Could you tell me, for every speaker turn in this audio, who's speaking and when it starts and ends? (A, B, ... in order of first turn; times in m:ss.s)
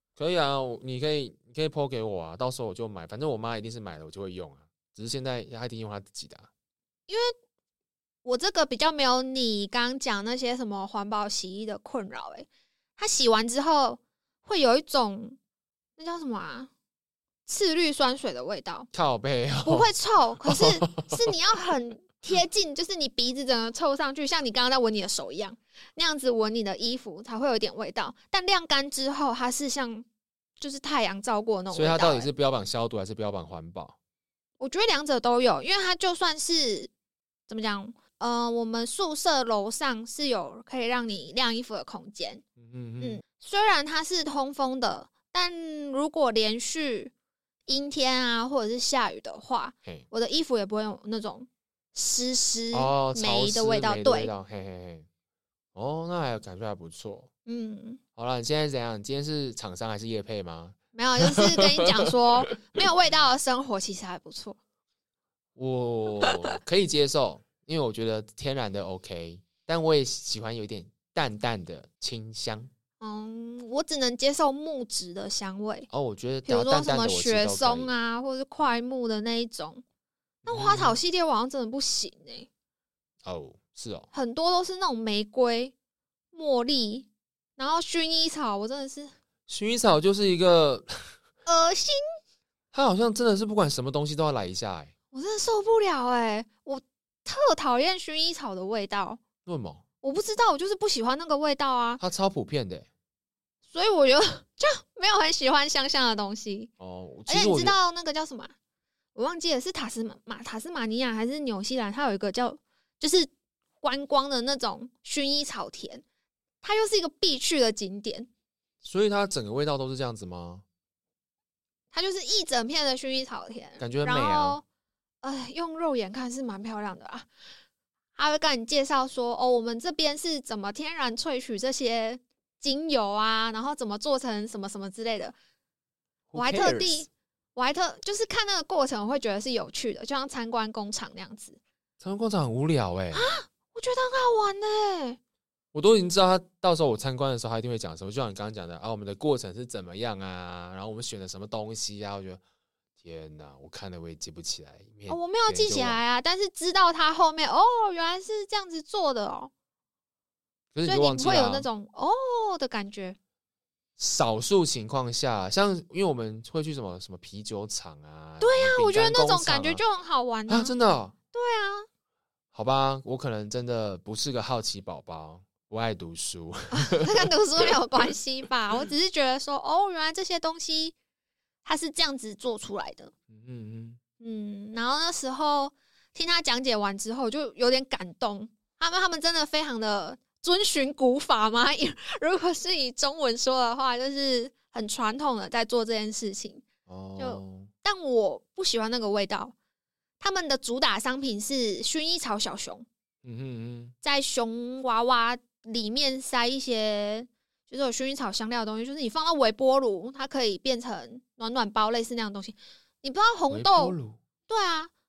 0:00.2-0:06.5 A
0:08.2-0:15.4 B
0:16.0-0:16.7 B
0:17.4-0:18.9 B
0:18.9-0:19.9 A
0:19.6-0:30.0 B
0:20.4-0:21.3 A
0:30.6-0:32.3 B
0:31.7-0:34.0 A
0:34.6-0:36.9 B
0:37.5-0:42.4 B
0:42.6-0:43.2 A
0:43.0-0:47.1 B
0:47.7-0:54.3 B
0:52.7-0:55.0 A
0:55.7-0:57.3 A
0:57.4-0:58.0 B
0:58.2-1:02.8 A
1:00.9-1:04.6 B
1:05.6-1:12.7 A
1:06.2-1:06.4 B
1:13.0-1:15.9 B
1:15.9-1:17.9 A
1:16.4-1:19.8 B
1:20.4-1:22.5 B
1:20.5-1:21.0 A
1:23.2-1:24.1 A
1:24.1-1:25.7 B
1:26.3-1:29.1 B
1:29.5-1:31.1 A
1:31.4-1:32.0 B
1:32.7-1:34.9 A
1:35.1-1:39.2 B
1:39.4-1:39.8 A
1:40.0-1:42.0 B
1:42.0-1:42.9 A
1:43.7-1:46.7 B
1:46.8-1:47.8 A
1:47.3-1:48.5 B
1:49.1-1:53.3 B
1:53.8-1:56.0 B
1:56.6-1:58.3 B
1:58.8-2:00.6 A
2:01.9-2:04.6 B
2:03.8-2:04.6 A
2:05.2-2:07.3 B
2:08.2-2:15.3 B
2:16.3-2:17.0 A
2:16.3-2:21.6 B
2:22.0-2:23.3 A
2:23.1-2:25.2 B
2:25.7-2:32.4 A
2:33.0-2:36.0 A
2:35.1-2:39.5 B
2:40.7-2:41.7 A
2:40.8-2:43.2 B
2:44.0-2:49.8 A
2:48.4-2:50.7 B
2:50.5-2:51.1 A
2:51.3-2:51.9 B
2:52.5-2:57.8 A
2:56.7-3:00.9 B
3:01.6-3:03.1 B
3:03.3-3:04.0 A
3:04.2-3:19.5 B
3:16.9-3:17.7 A
3:20.2-3:22.8 B
3:23.2-3:23.9 A
3:24.0-3:34.0 B
3:33.5-3:34.2 A
3:34.5-3:34.9 B